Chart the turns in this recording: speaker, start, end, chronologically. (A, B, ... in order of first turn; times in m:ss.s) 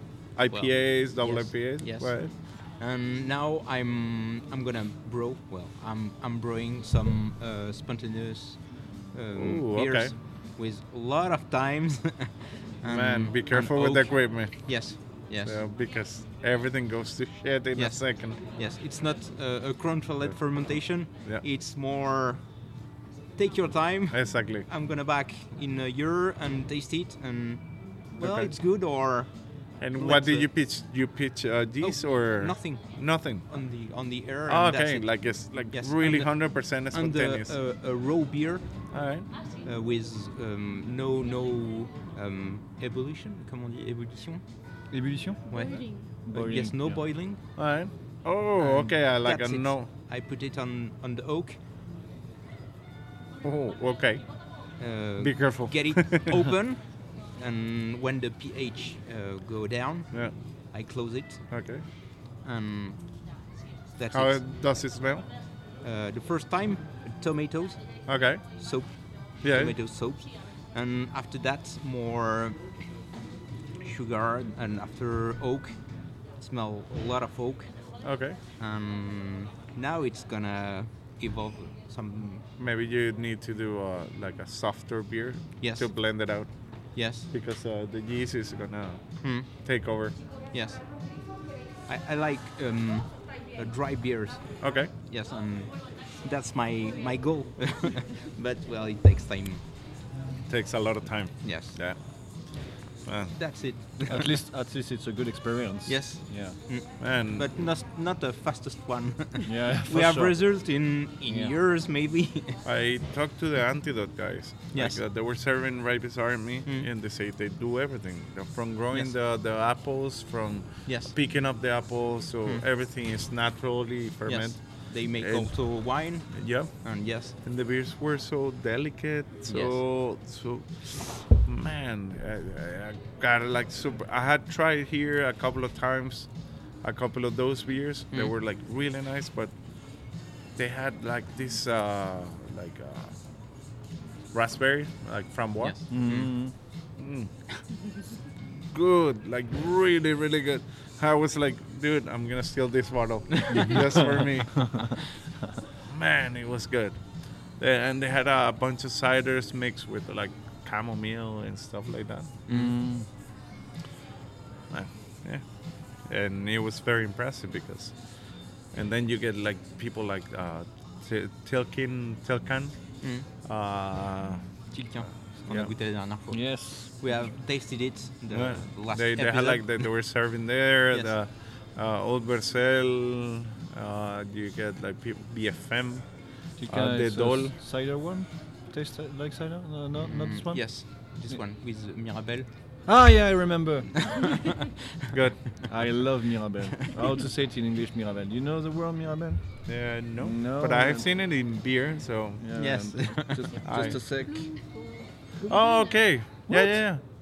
0:00.3-0:02.3 A
0:00.5-0:15.6 B
0:09.3-0:10.1 A
0:12.8-0:14.7 A
0:15.4-0:18.4 A
0:17.8-0:22.4 B
0:23.4-0:29.3 B
0:24.1-0:24.7 A
0:28.2-0:28.5 A
0:29.8-0:33.5 A
0:29.9-0:30.5 B
0:31.8-0:38.7 B
0:34.5-0:37.5 A
0:38.9-0:39.2 A
0:39.6-0:44.4 B
0:44.9-0:45.4 C
0:45.5-0:47.4 B
0:45.5-0:46.1 D
0:46.2-0:47.0 C
0:47.6-0:49.9 A
0:48.6-0:51.6 B
0:53.4-0:54.2 A
0:54.8-1:01.6 B
0:55.2-0:56.4 A
1:01.5-1:01.8 A
1:02.4-1:03.3 B
1:04.0-1:04.4 B
1:04.1-1:05.2 A
1:05.8-1:08.0 B
1:08.1-1:08.4 A
1:08.6-1:12.7 B
1:09.4-1:09.7 A
1:13.8-1:15.8 B
1:16.4-1:17.9 B
1:18.0-1:18.4 A
1:18.6-1:22.4 B
1:22.6-1:26.5 A
1:25.6-1:25.9 B
1:26.9-1:27.3 B
1:27.3-1:30.1 A
1:29.2-1:29.5 B
1:30.5-1:30.9 B
1:31.9-1:39.6 B
1:34.6-1:34.9 A
1:40.5-1:42.0 A
1:41.4-1:41.8 B
1:43.0-1:43.4 A
1:43.4-1:44.3 B
1:44.1-1:46.6 C
1:45.8-1:52.6 B
1:47.0-1:47.5 A
1:49.4-1:50.3 C
1:51.2-1:51.5 C
1:52.6-2:05.5 A
1:54.7-1:55.0 B
2:00.8-2:01.1 B
2:04.3-2:07.3 B
2:06.3-2:06.8 A
2:07.4-2:16.3 A
2:09.5-2:09.8 B
2:16.8-2:19.5 A
2:20.6-2:23.2 A
2:24.3-2:25.8 A
2:25.6-2:26.3 B
2:25.9-2:26.5 C
2:27.0-2:27.3 A
2:28.4-2:35.0 A
2:33.4-2:33.8 B
2:33.5-2:35.0 C
2:35.8-2:37.0 A
2:37.6-2:42.4 A
2:42.5-2:42.7 B
2:42.5-2:43.1 C
2:44.7-2:45.4 A
2:46.0-2:48.0 A
2:48.7-2:52.8 A
2:53.0-2:53.3 B
2:53.4-2:54.4 A
2:54.7-2:59.8 B
2:56.3-2:56.9 C
2:58.3-3:06.1 A
3:06.6-3:10.7 C
3:06.6-3:07.5 A
3:10.0-3:12.5 B
3:12.9-3:13.9 C
3:14.0-3:14.4 B
3:15.1-3:15.5 A
3:15.6-3:19.6 C
3:19.6-3:22.4 A
3:20.2-3:21.0 C
3:22.4-3:24.5 C
3:22.5-3:23.5 B
3:23.6-3:26.0 D
3:23.6-3:24.0 A
3:25.4-3:27.0 A
3:26.5-3:26.8 C